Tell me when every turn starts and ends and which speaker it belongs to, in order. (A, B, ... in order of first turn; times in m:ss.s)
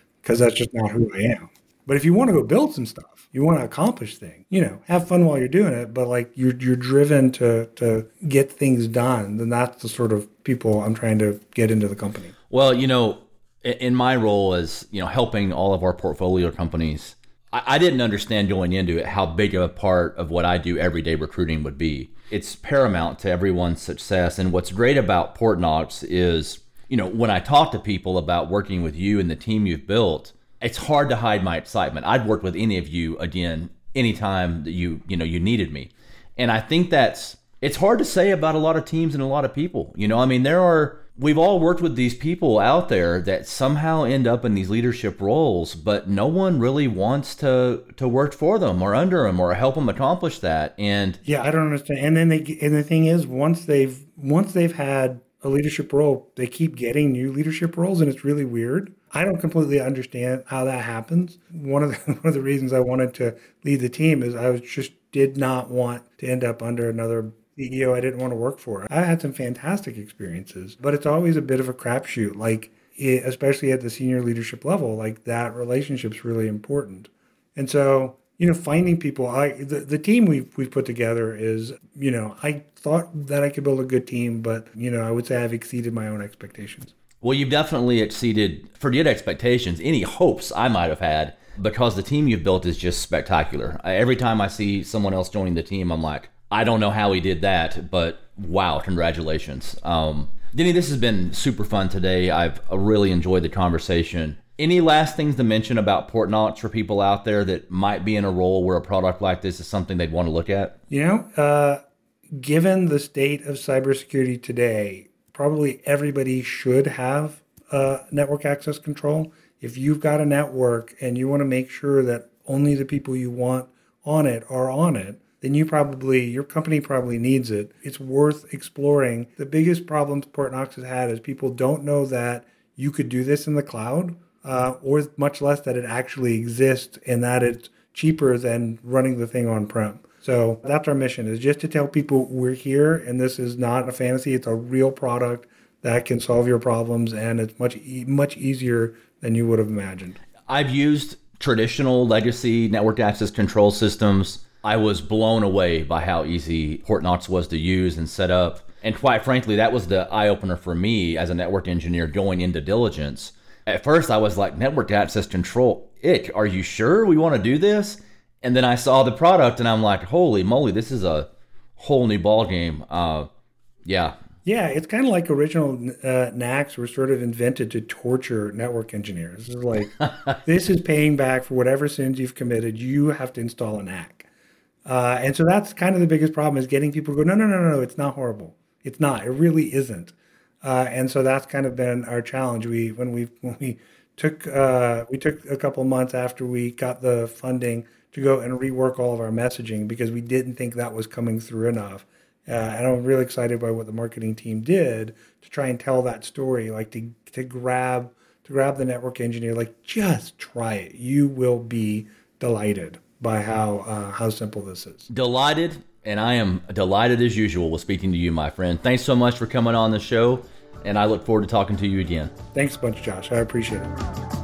0:00.2-0:12.3 A
0:12.5-0:51.2 B
0:51.2-1:26.9 A
1:27.2-1:50.7 B
1:50.9-1:51.8 A
1:52.4-2:30.2 A
2:30.5-2:53.3 B
2:53.8-2:54.2 B
2:54.4-3:04.3 A
3:00.0-3:00.3 B
3:04.8-3:35.1 A
3:35.1-3:42.3 B
3:42.5-3:43.9 A